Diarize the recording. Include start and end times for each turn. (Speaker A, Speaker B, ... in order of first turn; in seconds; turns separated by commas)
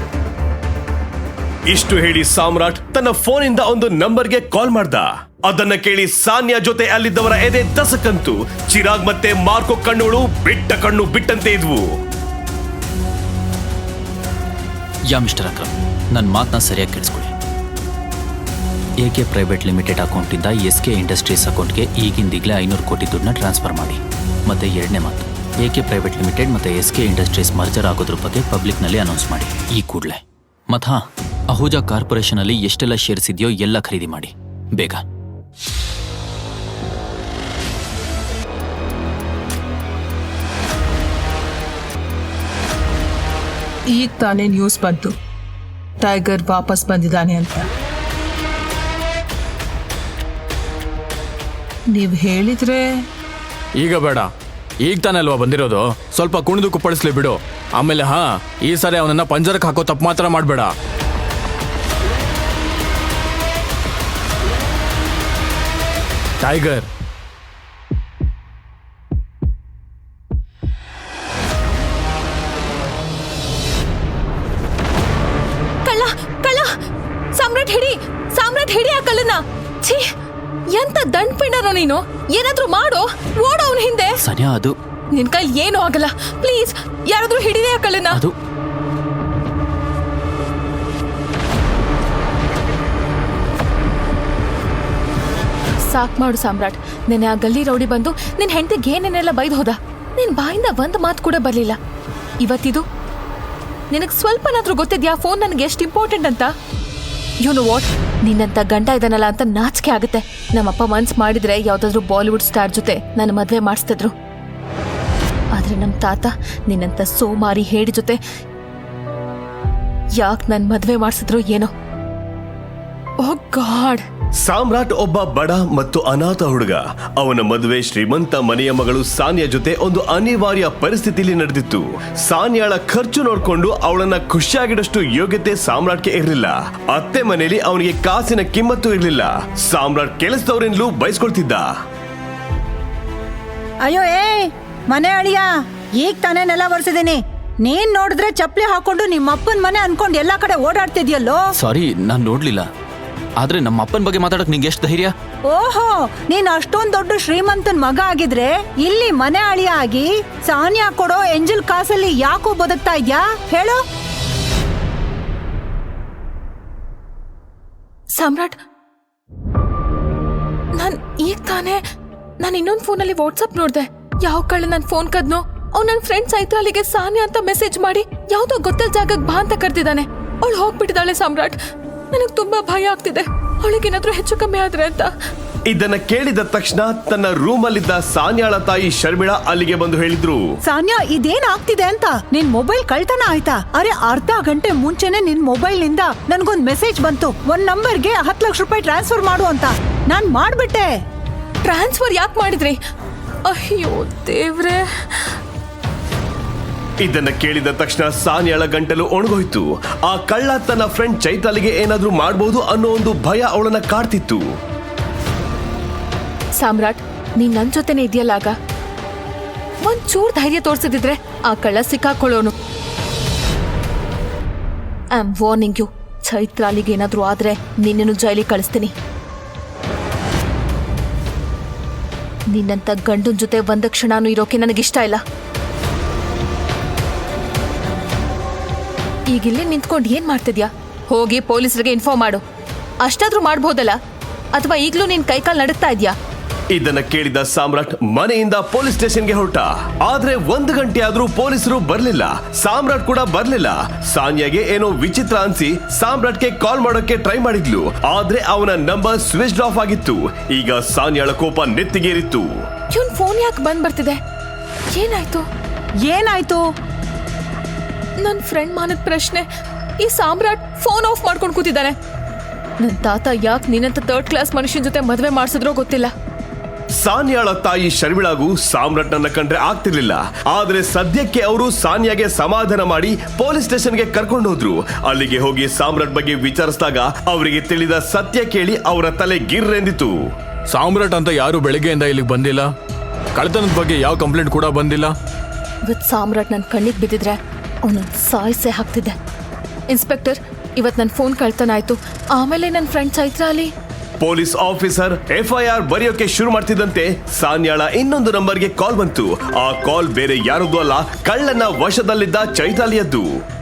Speaker A: 1.7-11.9, Speaker B: 15.1-17.3, Speaker B: 19.0-35.0, Speaker C: 43.9-45.1, Speaker C: 46.0-47.7, Speaker C: 51.9-52.9, Speaker D: 53.8-54.3, Speaker D: 54.8-60.7, Speaker D: 66.4-66.9, Speaker E: 75.8-76.7, Speaker E: 77.3-80.0, Speaker E: 80.7-84.2, Speaker B: 84.2-84.8, Speaker E: 85.1-88.2, Speaker E: 95.8-101.8, Speaker E: 102.4-102.8, Speaker E: 103.9-106.5, Speaker E: 107.4-114.1, Speaker E: 115.5-118.2, Speaker E: 120.2-121.7, Speaker E: 123.2-124.0, Speaker A: 124.4-141.7, Speaker F: 143.8-151.4, Speaker B: 151.6-152.7, Speaker B: 153.4-155.1, Speaker F: 155.5-163.8, Speaker E: 168.2-168.6, Speaker E: 170.8-171.8, Speaker E: 172.4-181.6, Speaker E: 182.1-185.1, Speaker A: 185.7-190.4, Speaker F: 190.7-200.9, Speaker E: 201.6-202.8, Speaker E: 203.5-205.3, Speaker A: 207.0-214.4, Speaker E: 216.6-218.5, Speaker E: 219.8-222.6, Speaker E: 225.2-228.9, Speaker E: 232.5-235.2, Speaker E: 239.3-242.4, Speaker E: 243.0-244.0, Speaker E: 244.5-246.2, Speaker A: 246.7-262.5, Speaker E: 262.9-264.2, Speaker E: 264.9-265.4, Speaker F: 266.0-266.6, Speaker E: 268.2-269.4, Speaker E: 270.0-271.9, Speaker E: 272.8-276.1, Speaker A: 277.0-290.1, Speaker D: 290.7-292.7, Speaker D: 293.4-295.1, Speaker E: 295.9-299.1, Speaker E: 299.9-303.7, Speaker A: 304.2-313.3